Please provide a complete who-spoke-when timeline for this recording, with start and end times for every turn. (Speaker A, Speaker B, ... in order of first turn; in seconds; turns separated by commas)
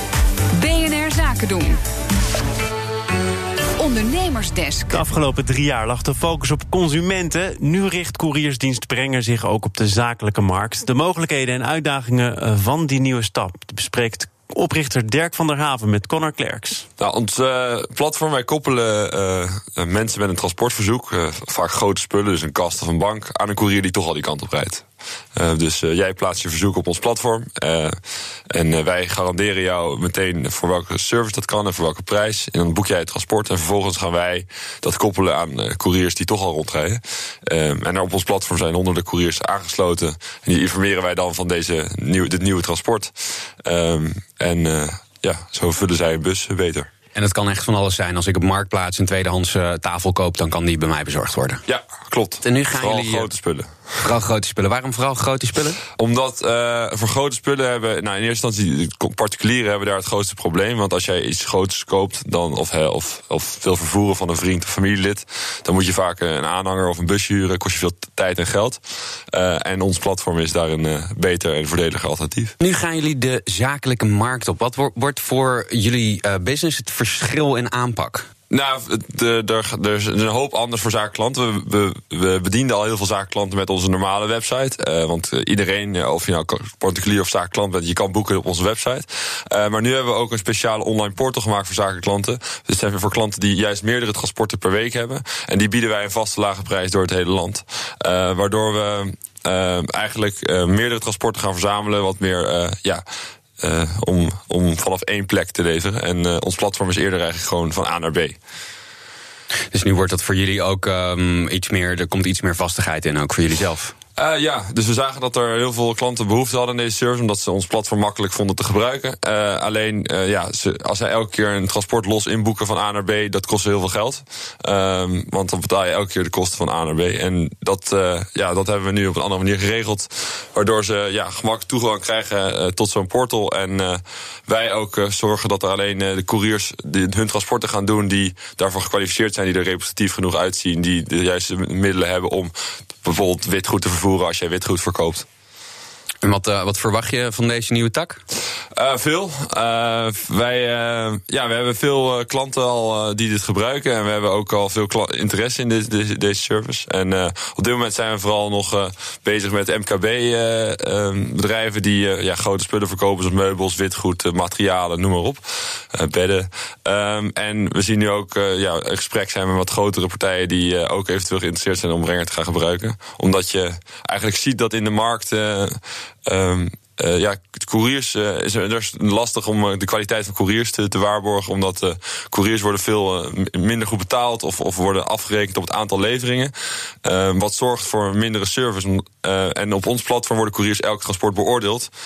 Speaker A: 0.5-1.8, Speaker A: 3.8-5.0, Speaker B: 4.9-16.9, Speaker C: 17.0-24.8, Speaker C: 25.4-28.0, Speaker C: 28.5-46.9, Speaker D: 47.1-51.6, Speaker C: 51.7-53.7, Speaker D: 52.4-53.3, Speaker D: 54.0-55.8, Speaker C: 56.0-72.5, Speaker D: 72.6-78.3, Speaker C: 78.5-103.0, Speaker C: 103.6-108.4, Speaker D: 109.7-113.9, Speaker C: 114.2-145.2, Speaker D: 146.2-148.2, Speaker C: 148.7-186.5, Speaker C: 187.0-191.9